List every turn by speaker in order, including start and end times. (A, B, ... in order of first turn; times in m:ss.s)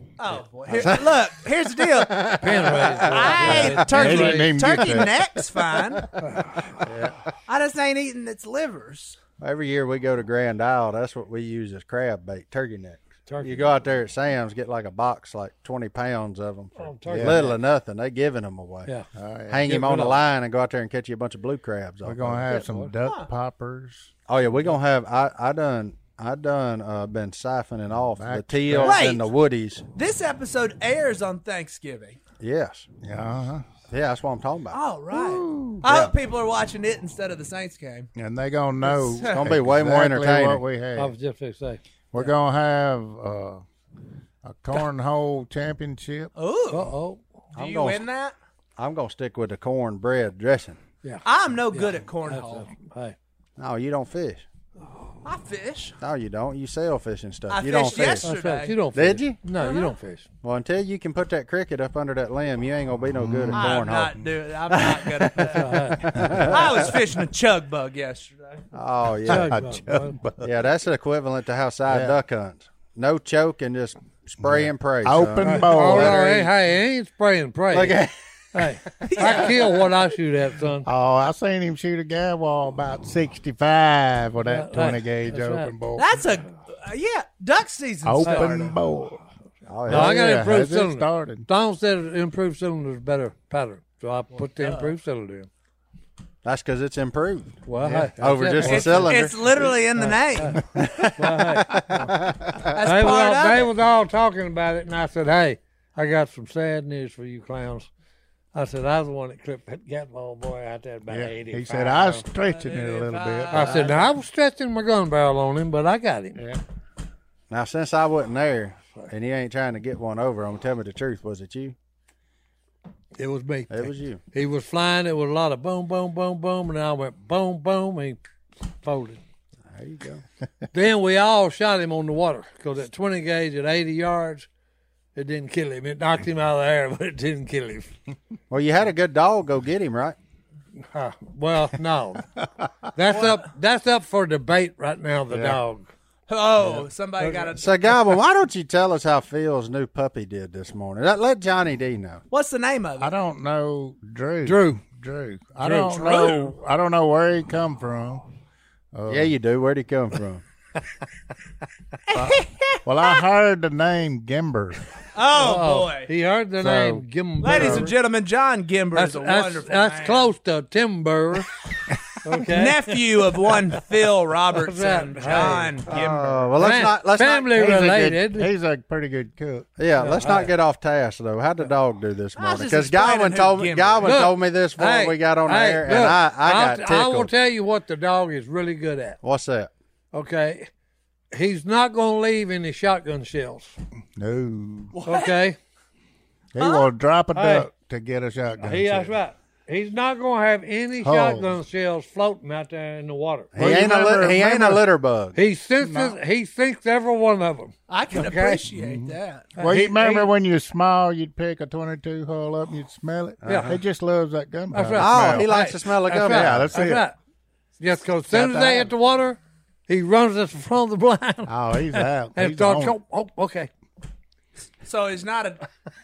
0:00.2-0:06.1 A
0:00.7-0:03.7 B
0:02.4-0:04.6 C
0:03.3-0:05.2 D
0:06.0-0:06.3 B
0:06.2-0:06.7 C
0:06.8-0:07.2 D
0:07.5-0:09.2 A
0:09.4-0:18.9 B
0:13.3-0:13.7 C
0:16.8-0:17.6 C
0:17.1-0:17.5 D
0:19.1-0:19.8 D
0:19.5-0:22.5 B
0:19.6-0:20.2 C
0:22.0-0:24.1 D
0:22.5-0:22.9 C
0:24.3-0:29.8 B
0:28.2-0:29.0 D
0:28.8-0:29.3 A
0:29.9-0:32.2 A
0:32.4-0:32.9 B
0:33.0-0:33.7 D
0:33.9-0:34.8 B
0:34.7-0:38.1 A
0:35.1-0:35.8 D
0:35.8-0:36.1 B
0:38.2-0:41.1 D
0:38.8-0:39.4 A
0:39.4-0:40.6 B
0:41.0-0:41.8 C
0:42.1-0:43.6 D
0:44.4-0:46.3 D
0:46.4-0:46.9 A
0:46.7-0:47.2 C
0:47.5-0:48.3 A
0:47.6-0:48.0 B
0:48.8-0:50.8 B
0:51.0-0:53.2 C
0:51.2-0:52.7 A
0:53.6-0:54.4 B
0:55.2-0:56.0 A
0:56.0-0:58.3 B
0:57.5-0:58.8 A
0:58.2-1:00.3 C
0:58.9-0:59.4 B
0:59.6-0:59.9 A
1:00.4-1:04.2 B
1:03.1-1:03.8 D
1:03.5-1:08.6 A
1:04.7-1:06.9 B
1:05.5-1:06.1 C
1:06.2-1:06.5 D
1:08.7-1:09.5 B
1:09.2-1:10.7 D
1:09.3-1:10.2 C
1:10.4-1:16.5 B
1:11.8-1:12.2 D
1:14.4-1:16.2 D
1:15.4-1:18.0 C
1:17.7-1:18.1 B
1:18.5-1:20.9 C
1:19.0-1:19.4 B
1:19.0-1:19.6 A
1:20.8-1:26.2 D
1:24.5-1:25.7 C
1:26.0-1:28.8 A
1:28.0-1:29.2 D
1:28.2-1:28.5 C
1:29.7-1:30.3 B
1:29.8-1:31.5 D
1:29.8-1:35.5 C
1:34.6-1:34.9 A
1:36.4-1:37.6 B
1:37.7-1:39.2 C
1:37.8-1:38.8 D
1:38.2-1:39.7 B
1:38.6-1:40.6 A
1:40.0-1:42.0 C
1:40.7-1:42.8 B
1:42.7-1:43.7 A
1:42.8-1:47.9 C
1:48.5-1:52.3 C
1:51.1-1:54.0 D
1:52.4-1:54.2 A
1:53.5-1:56.4 C
1:56.4-1:56.6 D
1:57.5-2:01.7 B
2:03.2-2:08.2 C
2:03.7-2:04.2 B
2:08.8-2:09.2 C
2:09.7-2:10.2 B
2:10.7-2:14.5 C
2:15.2-2:17.9 C
2:18.5-2:20.2 B
2:20.9-2:22.3 C
2:22.9-2:25.9 C
2:25.3-2:25.6 D
2:26.3-2:28.0 A
2:27.2-2:27.5 C
2:27.6-2:32.2 B
2:32.3-2:33.1 A
2:33.0-2:38.2 D
2:34.4-2:34.8 C
2:35.6-2:36.0 C
2:35.9-2:36.5 A
2:38.9-2:39.4 D
2:39.1-2:40.4 B
2:42.1-2:42.8 A
2:42.1-2:44.8 D
2:45.2-2:46.1 A
2:45.4-2:47.9 C
2:46.6-2:47.9 D
2:47.4-2:50.3 A
2:48.9-2:51.5 C
2:52.2-2:52.9 C
2:52.5-2:56.5 A
2:54.6-2:55.7 C
2:55.9-2:57.5 B
2:56.6-2:58.5 C
2:57.5-2:59.7 D
2:59.8-3:07.3 B
3:00.0-3:00.5 C
3:02.4-3:04.2 A
3:04.0-3:09.2 C
3:09.2-3:09.7 B
3:10.1-3:10.7 C
3:11.3-3:13.8 C
3:14.2-3:15.0 D
3:15.0-3:15.3 A
3:15.0-3:15.6 C
3:16.5-3:19.2 D
3:16.6-3:16.9 A
3:17.3-3:17.7 C
3:18.6-3:23.5 C
3:21.0-3:21.6 D
3:23.5-3:25.4 B
3:23.5-3:24.9 D
3:25.3-3:28.7 C
3:25.8-3:26.2 D
3:27.9-3:29.5 A
3:28.8-3:35.5 D
3:29.6-3:30.3 C
3:33.4-3:33.8 B
3:33.4-3:33.7 C
3:34.7-3:37.2 C
3:35.0-3:36.7 B
3:36.3-3:37.1 D
3:37.8-3:43.7 C
3:38.3-3:38.9 D
3:41.5-3:43.0 D
3:44.8-3:45.7 A